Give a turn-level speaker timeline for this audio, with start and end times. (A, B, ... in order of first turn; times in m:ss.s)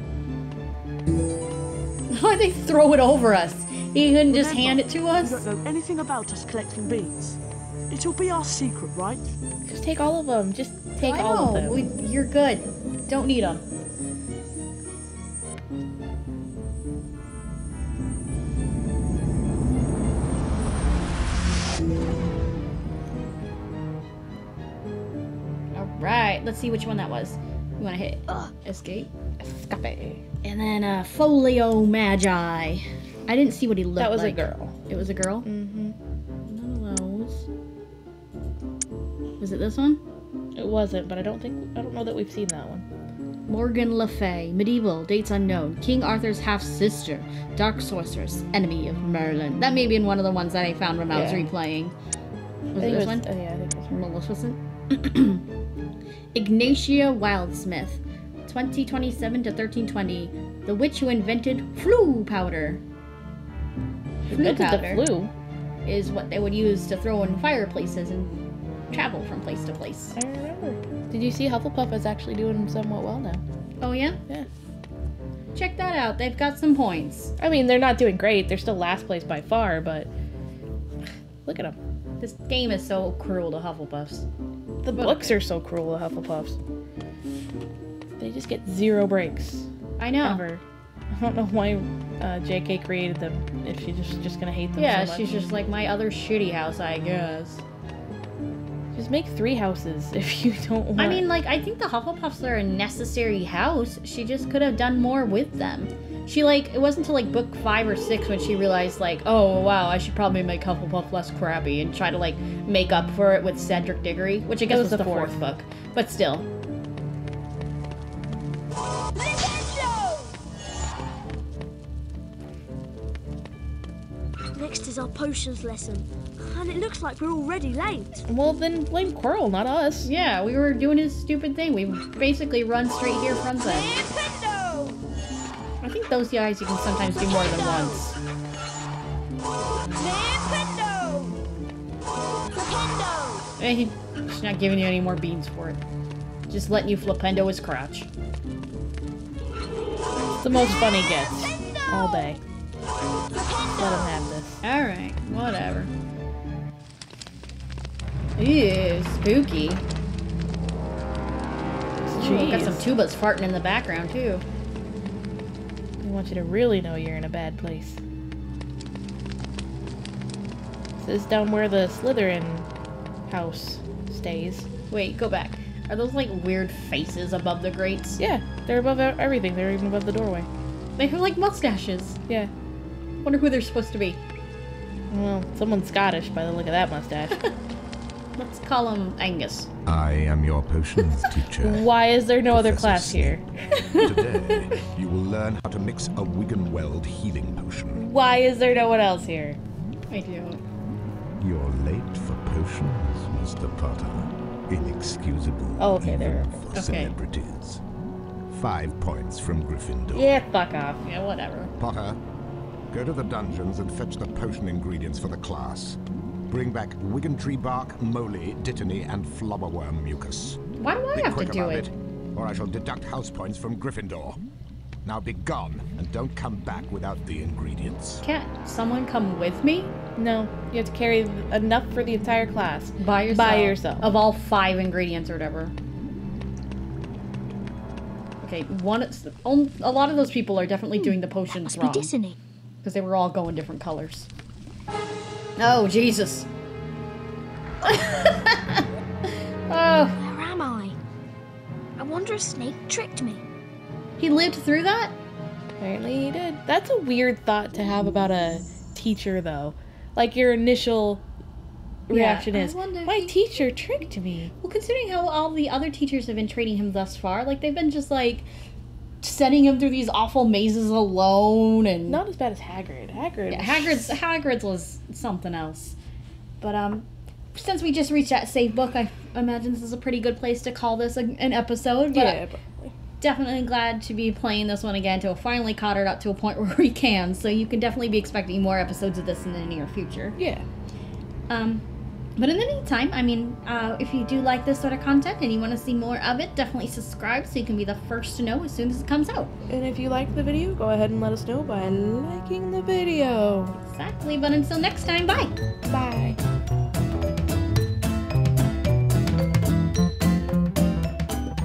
0:02.1-0:05.4 A
0:04.3-0:07.4 B
0:07.9-0:09.3 B
0:09.6-0:11.8 C
0:11.0-0:13.6 A
0:25.8-0:29.1 A
0:29.4-0:30.2 C
0:30.4-0:35.5 A
0:34.0-0:34.8 C
0:35.4-0:36.0 C
0:36.5-0:37.5 A
0:39.4-0:40.0 A
0:40.6-0:42.9 C
0:43.5-0:51.9 A
0:51.1-0:51.5 C
0:52.7-0:53.3 A
0:52.8-0:53.9 C
0:53.9-0:55.4 A
0:56.4-1:02.8 A
1:04.3-1:05.3 C
1:04.3-1:05.0 A
1:05.9-1:10.2 A
1:10.1-1:13.4 C
1:13.8-1:14.2 A
1:15.6-1:17.3 A
1:17.4-1:20.1 C
1:21.4-1:21.8 C
1:22.2-1:24.3 A
1:24.8-1:26.6 C
1:25.0-1:25.4 A
1:28.2-1:29.7 C
1:30.0-1:30.4 A
1:30.2-1:35.4 C
1:34.8-1:37.6 A
1:38.9-1:41.2 C
1:41.0-1:56.5 A
1:54.7-1:55.4 C
1:59.6-2:00.2 D
2:04.5-2:08.2 D
2:08.3-2:10.1 C
2:10.0-2:14.0 A
2:14.2-2:14.9 D
2:15.8-2:18.2 A
2:20.1-2:21.2 D
2:22.6-2:23.3 D
2:23.6-2:25.8 A
2:26.5-2:28.1 A
2:30.4-2:32.4 C
2:33.8-2:34.6 C
2:34.6-2:35.9 A
2:38.4-2:39.8 A
2:42.0-2:42.9 C
2:42.2-2:44.4 A
2:46.0-2:48.0 C
2:51.0-2:52.7 C
2:53.3-2:54.7 C
2:54.9-2:58.2 A
2:58.2-3:00.5 C
3:01.0-3:02.2 A
3:03.2-3:04.2 A
3:05.1-3:07.5 C
3:08.4-3:09.7 A
3:09.9-3:11.9 E
3:11.6-3:13.5 C
3:12.4-3:13.4 E
3:13.7-3:14.6 A
3:13.9-3:18.1 E
3:18.0-3:19.6 C
3:20.1-3:20.6 A
3:21.4-3:27.8 E
3:25.8-3:26.6 C
3:26.7-3:27.1 A
3:28.5-3:30.4 E
3:30.1-3:31.0 C
3:31.0-3:31.7 A
3:31.8-3:32.2 E
3:32.9-3:40.6 E
3:40.8-3:41.9 A
3:41.1-3:44.4 E
3:45.0-3:48.2 E
3:48.2-3:49.9 A
3:50.2-3:54.1 C
3:53.0-3:55.7 A
3:58.4-4:02.1 A
4:01.5-4:02.4 D
4:02.8-4:04.3 A
4:05.6-4:06.5 A
4:07.8-4:08.9 A
4:09.7-4:10.2 A
4:10.1-4:11.0 D
4:12.0-4:13.4 D
4:14.2-4:15.1 A
4:15.8-4:21.2 C
4:22.1-4:24.5 C
4:22.1-4:23.4 A
4:24.6-4:28.5 A
4:29.2-4:32.2 A
4:32.1-4:34.2 C
4:33.5-4:36.0 A
4:36.6-4:42.4 A
4:42.1-4:42.9 C
4:43.2-4:50.4 A
4:50.4-4:50.6 C
4:51.5-4:51.8 A
4:52.4-4:59.5 A
4:59.7-5:03.8 C
5:03.8-5:05.6 A
5:05.9-5:06.4 C